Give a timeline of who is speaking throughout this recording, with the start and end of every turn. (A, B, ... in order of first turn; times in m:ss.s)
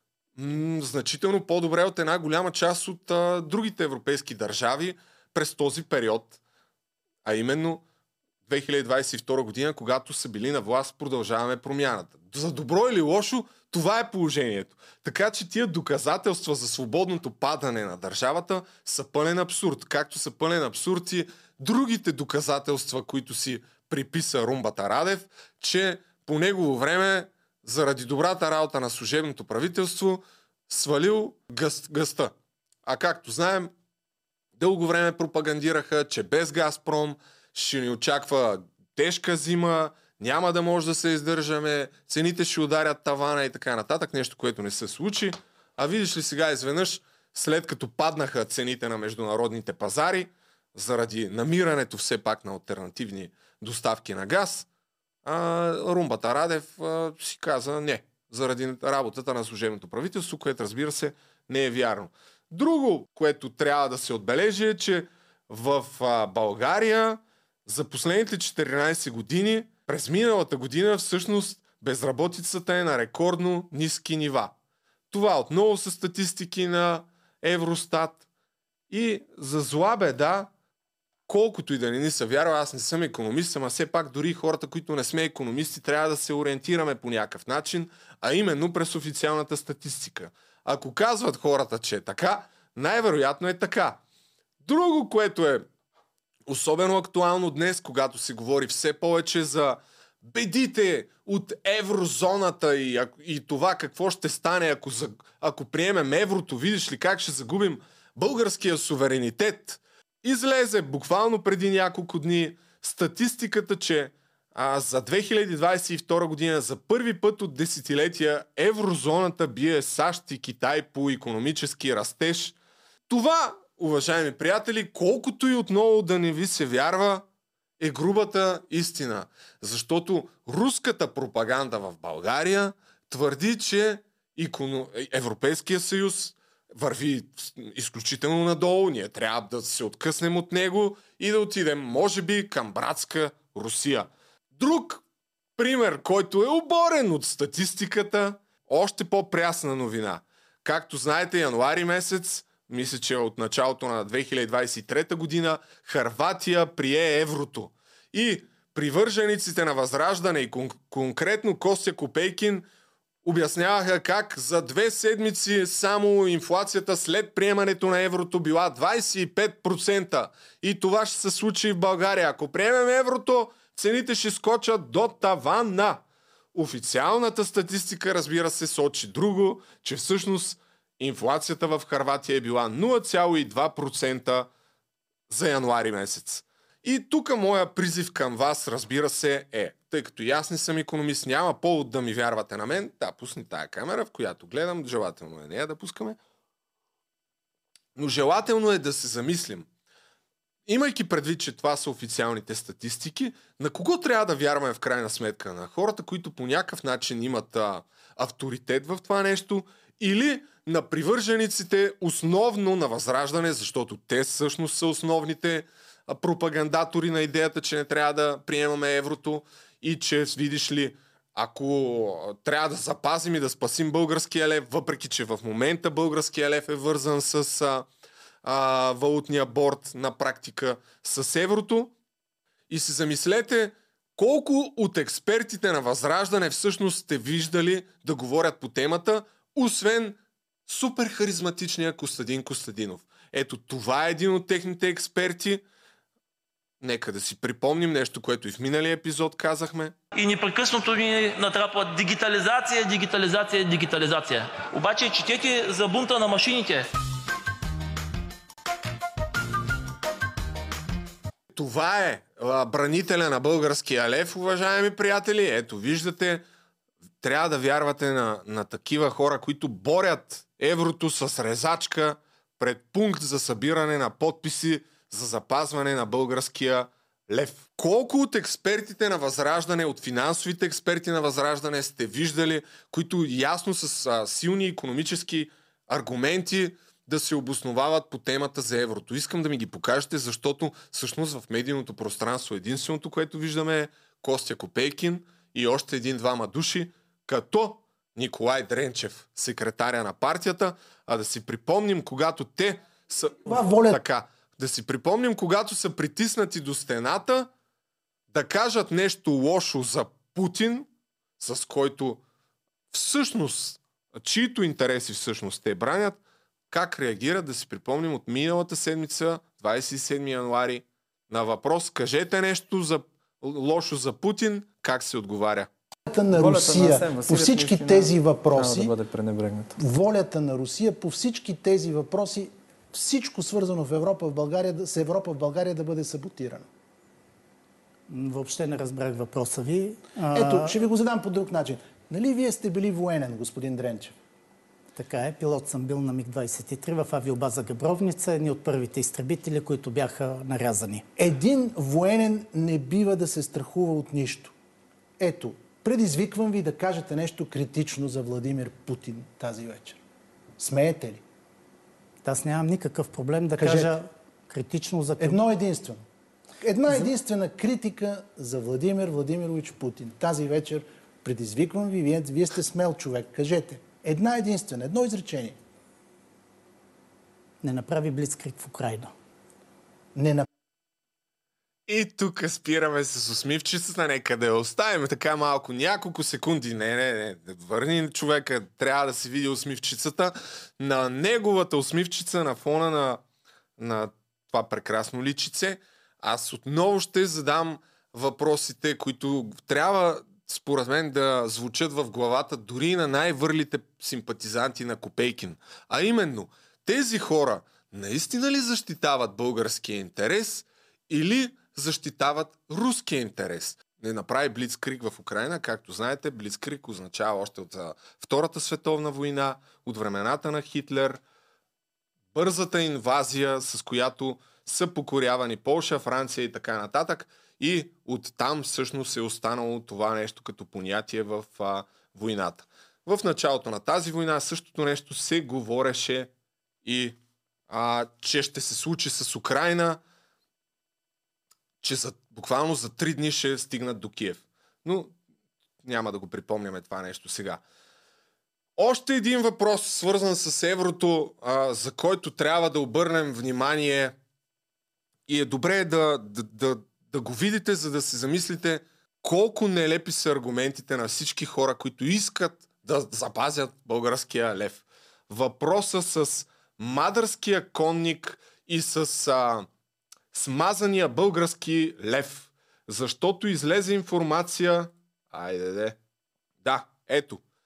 0:00.4-0:06.4 A
0:07.2-0:07.8 A
0:08.4-0:32.3 A
0:32.8-0:33.7 A
0:34.6-0:54.7 A
0:55.2-1:14.5 A
1:15.1-1:18.2 A
1:18.9-1:20.5 A
1:21.3-1:34.0 A
1:34.6-1:35.6 A
1:36.5-2:02.6 A
2:03.1-2:07.2 A
2:07.8-2:25.0 A
2:25.6-2:42.6 A
2:43.2-2:56.0 A
2:56.5-3:04.5 A
3:05.3-3:16.2 A
3:18.0-3:19.7 A
3:20.7-3:47.8 A
3:48.4-3:51.9 A
3:52.7-4:05.6 A
4:06.8-4:09.9 A
4:10.1-4:16.9 B
4:21.5-4:26.4 A
4:27.2-5:07.5 A
5:03.4-5:04.0 C
5:08.3-5:10.9 A
5:11.4-5:12.2 A
5:12.9-5:16.2 A
5:16.7-5:25.7 A
5:26.1-5:29.0 C
5:26.3-5:29.7 D
5:29.8-5:36.7 C
5:38.1-5:40.7 E
5:40.3-5:44.2 C
5:45.0-5:51.1 E
5:51.2-5:54.5 C
5:55.2-6:00.0 C
6:00.6-6:01.2 C
6:02.2-6:05.4 E
6:03.6-6:03.9 C
6:05.2-6:06.0 C
6:06.6-6:15.6 C
6:17.6-6:19.1 E
6:20.1-6:20.4 C
6:21.9-6:33.2 A
6:33.8-7:01.2 A
7:02.3-7:16.3 A
7:16.8-7:17.2 A
7:17.7-7:20.0 A
7:21.8-7:25.1 A
7:25.8-7:27.6 A
7:28.8-7:34.2 A
7:35.3-7:49.7 A
7:50.3-7:56.0 A
7:56.6-7:57.4 A